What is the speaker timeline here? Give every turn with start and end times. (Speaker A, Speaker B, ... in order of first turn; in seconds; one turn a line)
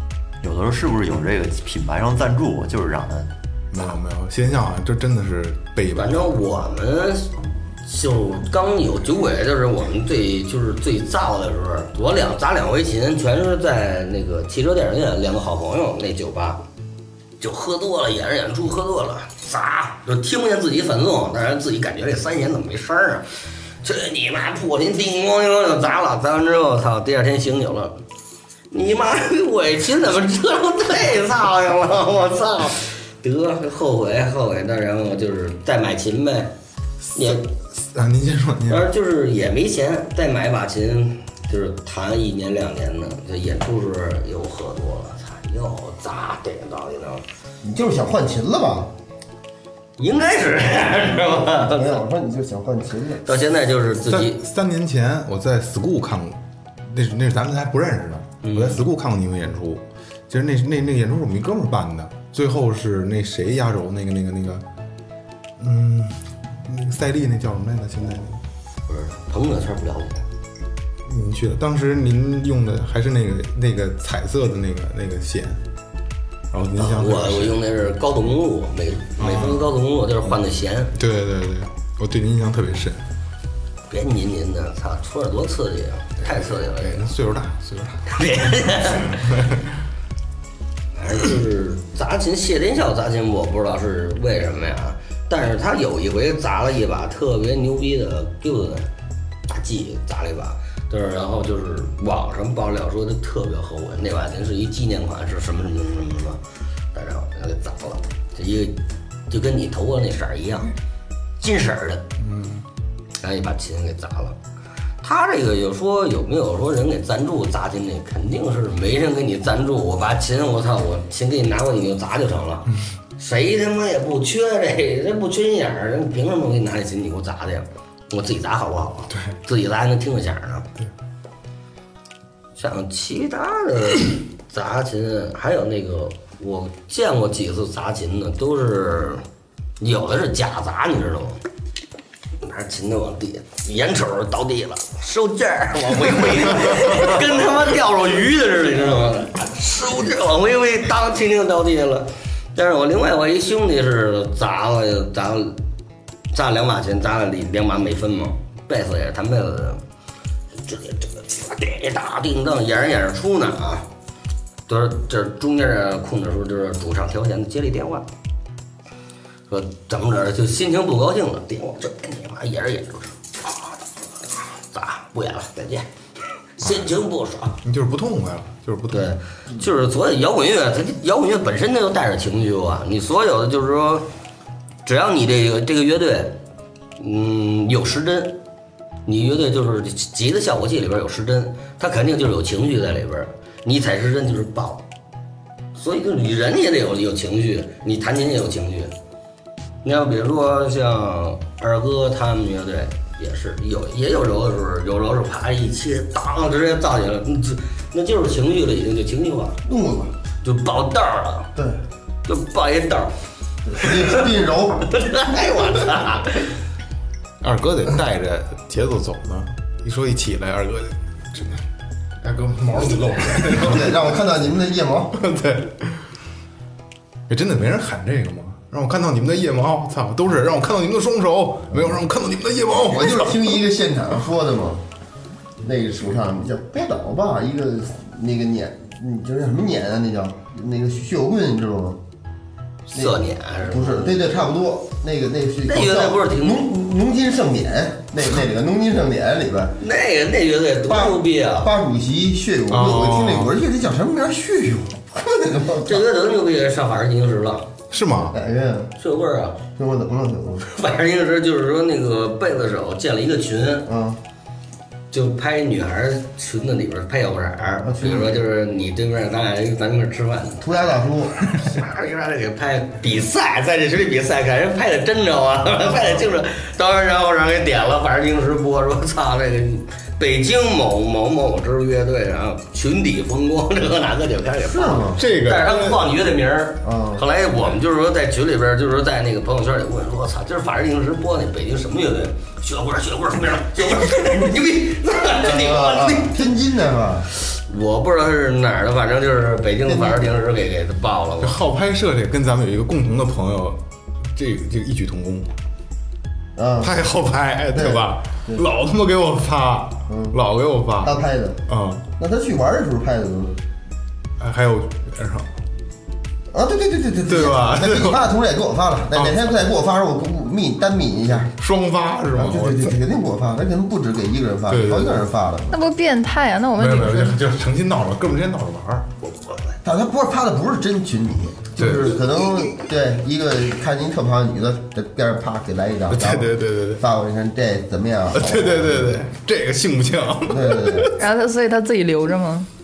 Speaker A: 0.4-3.3
Speaker B: 3.7-6.3
Speaker C: 6.0-16.6
Speaker C: 17.4-23.3
Speaker C: 23.8-28.0
Speaker C: 28.7-36.5
Speaker B: 37.0-38.9
Speaker C: 37.1-37.4
Speaker C: 38.7-47.2
Speaker D: 47.6-48.9
Speaker C: 50.0-52.0
Speaker D: 51.5-53.2
Speaker C: 53.2-54.4
Speaker B: 54.1-64.6
Speaker C: 58.4-58.8
Speaker B: 65.6-68.4
Speaker C: 68.9-70.2
Speaker B: 71.1-75.6
Speaker B: 76.5-77.6
Speaker C: 76.8-80.9
Speaker B: 79.2-79.7
Speaker B: 81.0-83.0
Speaker C: 83.9-87.1
Speaker B: 86.2-89.7
Speaker C: 88.1-89.3
Speaker C: 91.0-98.9
Speaker C: 99.5-106.4
Speaker C: 106.9-108.8
Speaker C: 109.3-110.7
Speaker C: 111.4-112.0
Speaker B: 112.2-112.6
Speaker C: 113.2-114.4
Speaker C: 115.0-130.7
Speaker B: 129.1-129.4
Speaker C: 132.6-139.2
Speaker C: 139.8-141.4
Speaker C: 142.4-155.6
Speaker C: 156.3-159.8
Speaker C: 160.6-163.9
Speaker C: 164.7-168.1
Speaker C: 169.5-173.2
Speaker C: 174.7-175.9
Speaker C: 176.6-177.6
Speaker B: 177.6-179.2
Speaker C: 178.9-184.1
Speaker C: 184.8-186.4
Speaker C: 187.0-188.4
Speaker C: 189.1-194.8
Speaker C: 195.7-198.9
Speaker C: 199.8-209.6
Speaker D: 209.7-210.2
Speaker C: 210.4-211.5
Speaker D: 211.6-211.8
Speaker C: 212.3-213.2
Speaker D: 213.7-214.9
Speaker C: 213.8-214.3
Speaker C: 214.8-216.5
Speaker B: 217.4-221.7
Speaker B: 222.2-224.1
Speaker D: 223.5-225.2
Speaker B: 225.2-226.0
Speaker B: 227.3-233.6
Speaker D: 231.7-232.0
Speaker D: 232.8-234.8
Speaker D: 235.6-242.0
Speaker C: 242.9-244.3
Speaker D: 242.9-249.8
Speaker C: 245.7-246.7
Speaker C: 249.8-251.7
Speaker D: 250.9-256.1
Speaker B: 252.7-253.5
Speaker C: 255.9-257.7
Speaker B: 257.9-258.4
Speaker D: 258.3-258.9
Speaker C: 259.0-259.6
Speaker D: 259.8-260.7
Speaker C: 260.6-263.9
Speaker D: 263.9-264.2
Speaker C: 265.1-270.8
Speaker D: 267.8-268.4
Speaker D: 270.6-271.4
Speaker C: 271.5-296.5
Speaker D: 284.6-285.2
Speaker B: 285.2-286.1
Speaker D: 286.8-287.2
Speaker D: 295.4-297.3
Speaker C: 297.4-301.6
Speaker D: 299.9-300.3
Speaker B: 301.4-303.8
Speaker B: 304.3-305.5
Speaker D: 306.6-306.9
Speaker B: 306.8-312.1
Speaker D: 307.7-308.6
Speaker D: 310.1-310.4
Speaker D: 311.0-311.6
Speaker D: 312.2-313.6
Speaker B: 314.4-315.5
Speaker D: 316.5-321.5
Speaker B: 317.3-318.3
Speaker B: 319.1-319.6
Speaker B: 321.5-323.0
Speaker D: 322.4-325.8
Speaker B: 324.7-325.2
Speaker E: 325.7-327.4
Speaker B: 326.8-329.1
Speaker D: 329.8-339.2
Speaker B: 331.8-332.6
Speaker B: 336.1-337.0
Speaker B: 338.3-341.2
Speaker D: 340.5-341.1
Speaker E: 341.2-342.7